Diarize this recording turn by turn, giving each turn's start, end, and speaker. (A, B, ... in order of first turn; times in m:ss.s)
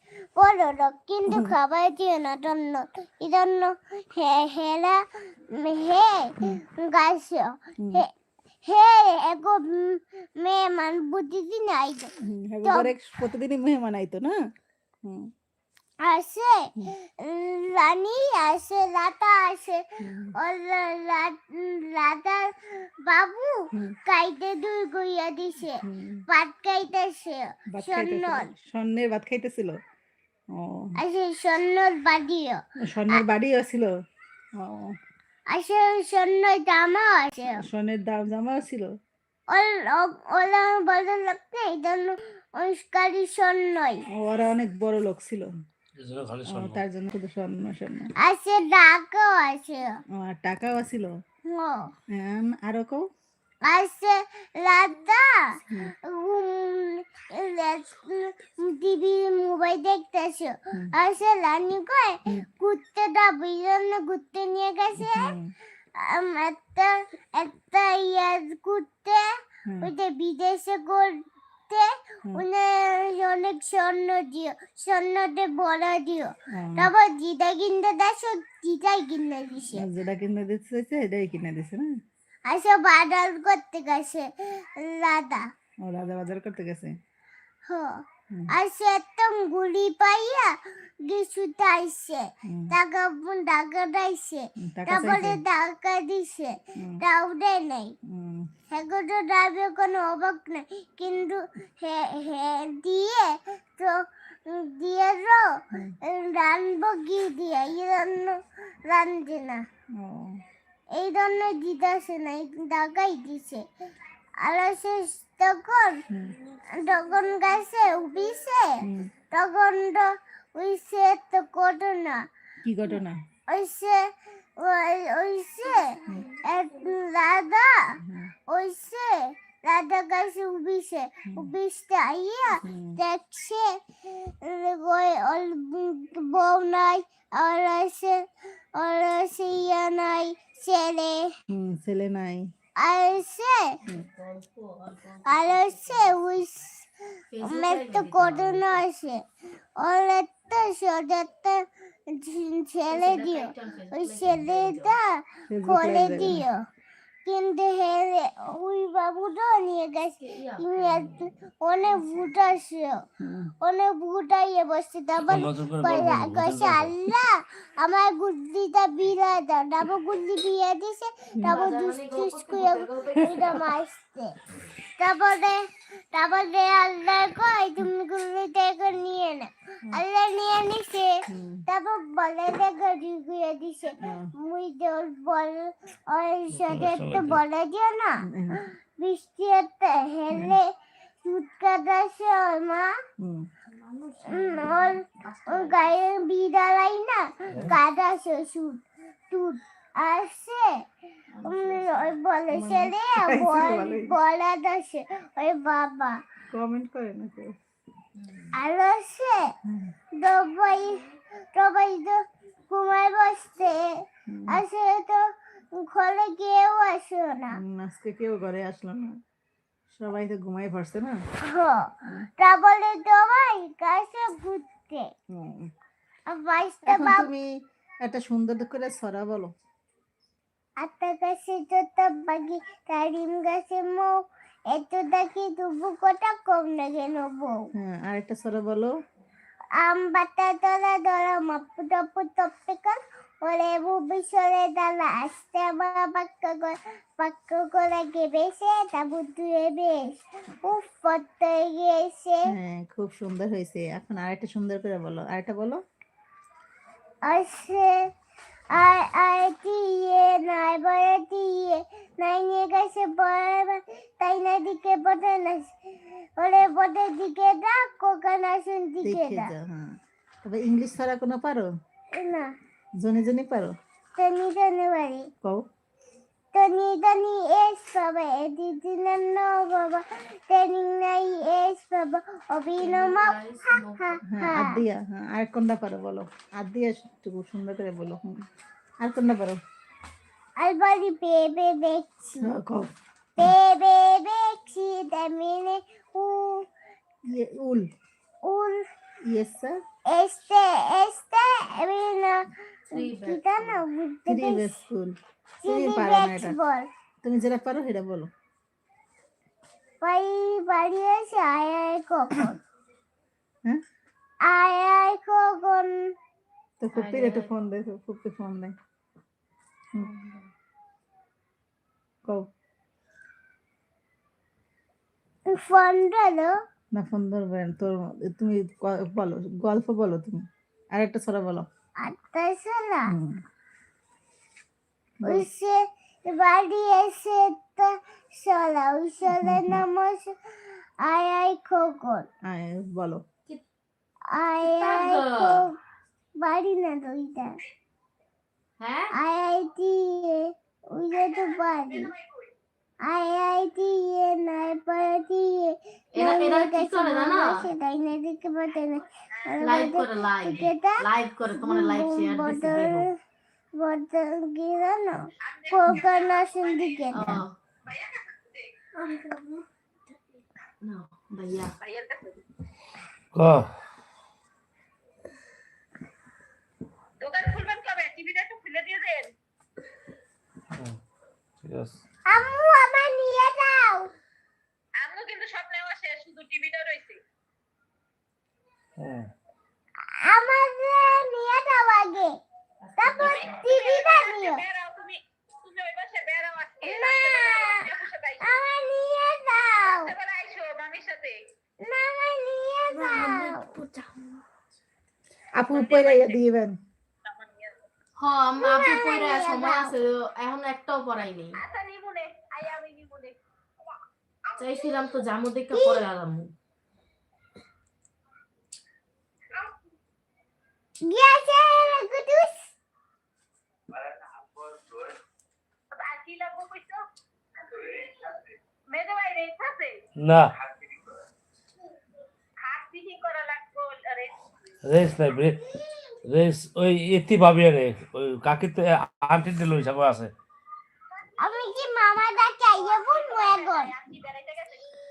0:00.4-0:08.1 A
0:01.3-0:01.6 B
0:08.6-0:12.1 A
0:12.2-0:14.4 B
0:12.6-0:12.9 A
0:15.0-0:15.3 B
0:16.0-0:19.8 A
0:20.0-0:20.3 B
0:20.4-0:28.5 A
0:25.8-0:26.2 B
0:27.7-0:29.8 B
0:30.6-0:30.9 B
0:31.0-0:33.2 A
0:32.8-0:33.9 B
0:34.6-0:34.9 B
0:35.5-0:37.6 A
0:37.5-0:38.9 B
0:39.5-0:44.0 A
0:44.2-0:45.5 B
0:46.0-0:46.8 C
0:46.5-0:48.1 B
0:48.2-0:50.0 A
0:50.2-0:51.1 B
0:51.5-0:51.9 A
0:52.1-0:53.0 B
0:53.6-0:55.6 A
0:56.1-1:05.4 A
1:05.0-1:05.5 B
1:06.0-1:09.3 A
1:09.8-1:19.8 A
1:16.5-1:16.9 B
1:19.7-1:21.9 B
1:22.5-1:25.5 A
1:25.8-1:26.9 B
1:27.7-1:38.0 A
1:32.5-1:32.7 B
1:34.6-1:35.4 B
1:38.1-1:38.5 B
1:38.7-1:49.6 A
1:50.0-1:50.4 B
1:50.9-1:53.6 A
1:54.4-1:56.0 A
1:56.1-1:56.4 B
1:56.7-2:02.3 A
1:58.8-1:59.1 B
2:02.6-2:03.2 B
2:03.5-2:08.0 A
2:08.0-2:08.3 B
2:08.5-2:18.2 A
2:12.6-2:13.0 B
2:18.8-2:21.3 A
2:21.5-2:22.5 B
2:22.8-2:23.8 A
2:23.9-2:26.2 D
2:25.3-2:26.9 A
2:27.3-2:28.8 D
2:27.4-2:29.2 A
2:29.8-2:36.6 A
2:32.9-2:35.0 D
2:35.5-2:36.4 B
2:37.2-2:43.1 A
2:40.2-2:41.3 D
2:43.2-2:43.5 B
2:43.6-2:54.3 A
2:45.2-2:47.0 C
2:51.4-2:53.6 D
2:55.0-2:55.6 A
2:56.1-3:08.2 A
3:01.3-3:01.6 B
3:04.0-3:04.3 B
3:06.5-3:07.4 C
3:08.2-3:08.6 B
3:09.0-3:10.7 A
3:10.3-3:10.6 B
3:11.2-3:12.9 A
3:13.2-3:13.5 B
3:13.7-3:15.9 D
3:14.3-3:20.8 A
3:17.5-3:17.8 C
3:21.3-3:22.2 D
3:21.4-3:26.2 A
3:22.5-3:24.2 B
3:26.5-3:27.6 B
3:28.2-3:28.6 D
3:28.5-3:29.5 A
3:30.2-3:33.9 A
3:34.3-3:34.6 B
3:34.5-3:37.6 A
3:37.6-3:39.2 B
3:40.0-3:41.2 B
3:41.4-3:45.1 A
3:45.4-3:45.7 B
3:46.3-3:47.3 A
3:46.9-3:47.5 B
3:48.0-3:49.5 B
3:50.8-3:54.2 A
3:54.7-3:57.6 A
3:57.8-3:58.9 B
3:59.8-4:12.5 A
4:12.5-4:15.8 B
4:17.2-4:18.1 A
4:18.7-4:25.7 A
4:26.4-4:29.5 A
4:29.0-4:29.9 B
4:30.4-4:31.7 B
4:32.1-4:32.5 A
4:33.0-4:33.7 B
4:34.2-4:35.3 A
4:36.5-4:44.8 A
4:42.8-4:44.2 D
4:44.3-4:48.3 B
4:49.0-4:49.6 B
4:50.6-4:52.5 A
4:52.4-4:52.9 B
4:53.4-4:56.6 A
4:57.3-4:57.9 B
4:58.4-4:58.8 A
4:59.3-4:59.7 B
5:00.1-5:04.8 A
5:02.9-5:03.8 D
5:04.3-5:05.1 B
5:05.6-5:06.9 A
5:05.7-5:06.6 B
5:07.2-5:08.3 B
5:10.0-5:12.6 A
5:14.4-5:16.1 A
5:16.8-5:18.7 B
5:16.9-5:17.5 D
5:20.0-5:20.5 D
5:25.5-5:26.5 A
5:27.0-5:30.4 B
5:31.0-5:31.7 B
5:32.0-5:33.1 A
5:35.2-5:40.4 A
5:39.3-5:39.8 B
5:41.0-5:42.3 A
5:42.4-5:43.2 B
5:44.3-5:45.8 A
5:44.6-5:45.7 D
5:46.4-5:47.6 A
5:48.8-5:49.1 D
5:49.1-5:52.1 A
5:53.0-6:01.0 A
5:56.1-5:57.6 D
5:59.6-6:03.1 D
6:01.6-6:03.1 A
6:03.8-6:07.4 A
6:05.5-6:06.9 E
6:07.1-6:07.6 D
6:07.9-6:08.7 E
6:09.0-6:09.6 D
6:10.8-6:11.8 D
6:11.8-6:12.4 E
6:13.3-6:13.7 C
6:17.2-6:19.3 E
6:20.7-6:21.0 C
6:21.6-6:22.0 C
6:22.3-6:24.1 A
6:25.0-6:27.2 E
6:29.0-6:29.3 C
6:30.2-6:32.4 A
6:32.9-6:33.4 D
6:33.0-6:34.6 A
6:33.2-6:38.7 E
6:36.8-6:40.2 A
6:39.8-6:41.4 E
6:41.8-6:43.6 A
6:42.9-6:44.4 D
6:45.6-6:46.8 B
6:45.7-6:46.4 E
6:47.2-6:47.8 E
6:48.2-6:51.6 D
6:48.6-6:49.9 A
6:51.6-6:53.4 E
6:54.5-6:54.7 E
6:54.6-6:56.5 D
6:55.7-6:56.0 A
7:01.1-7:02.7 A
7:03.9-7:05.1 E
7:05.9-7:07.0 E
7:07.6-7:10.0 E
7:10.2-7:10.5 C
7:12.6-7:14.5 E
7:14.8-7:15.6 C
7:16.3-7:20.3 C
7:21.4-7:24.0 A
7:22.9-7:24.9 E